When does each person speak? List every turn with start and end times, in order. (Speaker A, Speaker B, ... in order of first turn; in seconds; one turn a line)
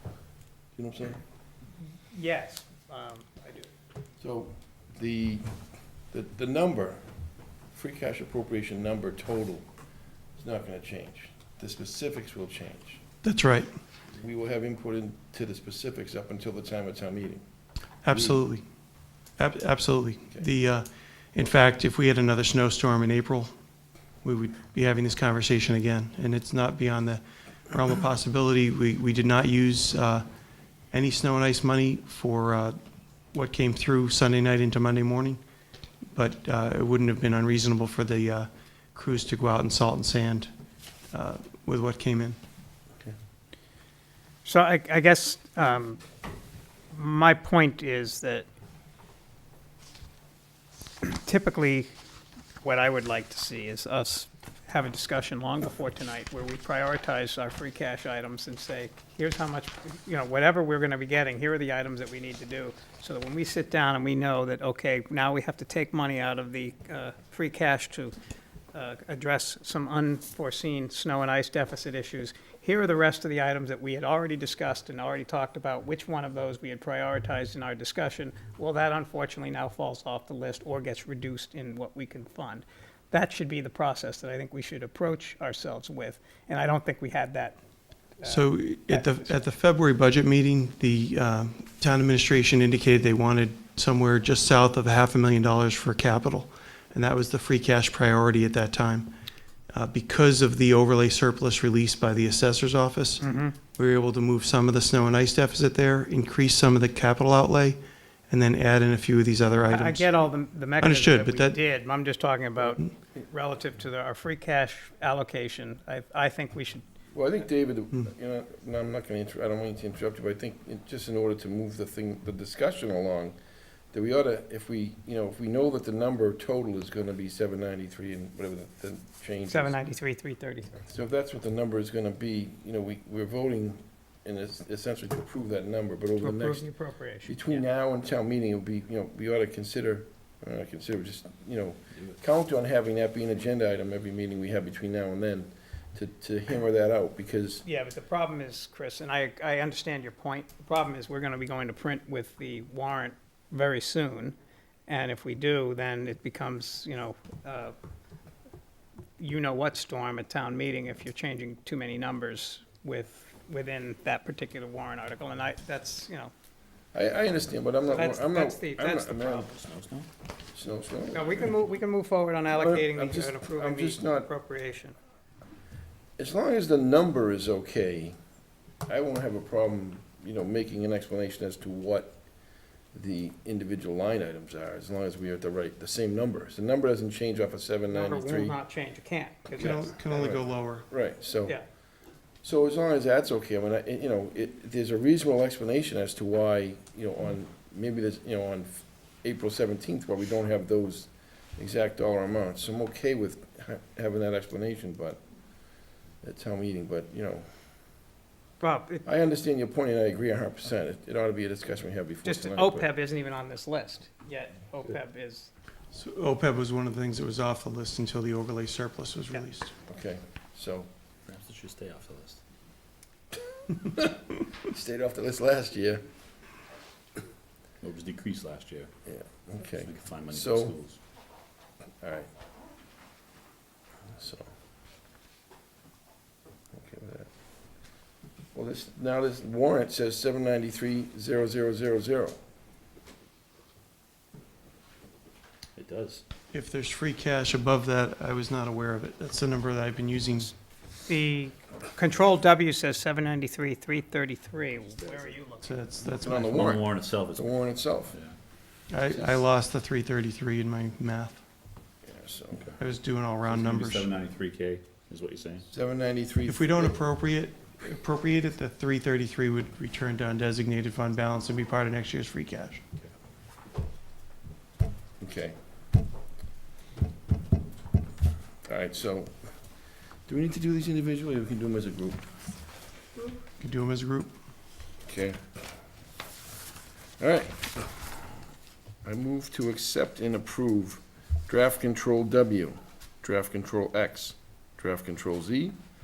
Speaker A: 0.7-1.2
Speaker B: 2.1-3.7
Speaker A: 4.2-5.5
Speaker A: 6.1-9.7
Speaker A: 10.4-13.0
Speaker C: 13.2-13.7
Speaker A: 14.1-17.4
Speaker C: 18.0-18.6
Speaker A: 18.1-18.4
Speaker C: 19.4-23.5
Speaker C: 24.2-30.2
Speaker C: 30.9-32.8
Speaker C: 33.3-35.4
Speaker C: 36.1-40.5
Speaker C: 41.1-42.4
Speaker B: 44.5-46.0
Speaker B: 46.9-48.5
Speaker B: 51.0-51.9
Speaker B: 52.6-68.2
Speaker B: 68.7-87.6
Speaker B: 88.2-89.2
Speaker C: 88.2-99.1
Speaker C: 99.7-103.2
Speaker B: 103.2-103.6
Speaker C: 103.7-107.8
Speaker C: 108.3-110.1
Speaker B: 109.7-116.8
Speaker C: 110.8-111.6
Speaker A: 117.1-123.4
Speaker A: 123.9-129.8
Speaker B: 129.5-130.8
Speaker A: 130.8-136.7
Speaker B: 136.2-137.6
Speaker A: 137.2-147.6
Speaker B: 147.7-154.3
Speaker B: 154.9-157.8
Speaker B: 159.2-166.3
Speaker A: 166.9-169.5
Speaker B: 167.9-169.5
Speaker D: 169.4-170.1
Speaker A: 170.5-171.6
Speaker B: 171.1-175.0
Speaker A: 172.5-174.3
Speaker A: 176.2-178.2
Speaker A: 178.9-182.2
Speaker A: 182.9-188.6
Speaker B: 187.9-189.9
Speaker C: 189.6-190.9
Speaker A: 189.6-191.6
Speaker A: 192.4-205.2
Speaker A: 206.2-207.5
Speaker B: 208.6-209.0
Speaker A: 209.1-212.9
Speaker B: 212.2-215.5
Speaker C: 215.9-219.7
Speaker A: 219.9-220.9
Speaker D: 221.3-222.4
Speaker A: 223.8-226.0
Speaker D: 227.8-228.9
Speaker A: 229.1-230.8
Speaker D: 229.8-231.0
Speaker A: 232.0-232.3
Speaker A: 234.1-234.5
Speaker A: 236.7-237.3
Speaker A: 238.5-242.4
Speaker D: 245.8-246.2
Speaker C: 246.5-250.5
Speaker B: 251.1-255.7
Speaker D: 255.0-255.4
Speaker C: 255.6-256.7
Speaker A: 256.1-258.2
Speaker D: 256.3-257.5
Speaker C: 258.9-261.4
Speaker A: 259.1-259.4
Speaker A: 262.0-262.7
Speaker C: 262.8-264.1
Speaker D: 263.4-265.7
Speaker A: 265.7-267.0
Speaker C: 266.5-272.8
Speaker A: 275.2-275.6
Speaker A: 278.6-279.6
Speaker A: 280.3-282.4
Speaker C: 283.6-284.3
Speaker A: 285.1-285.6
Speaker A: 287.2-287.9
Speaker A: 289.0-295.8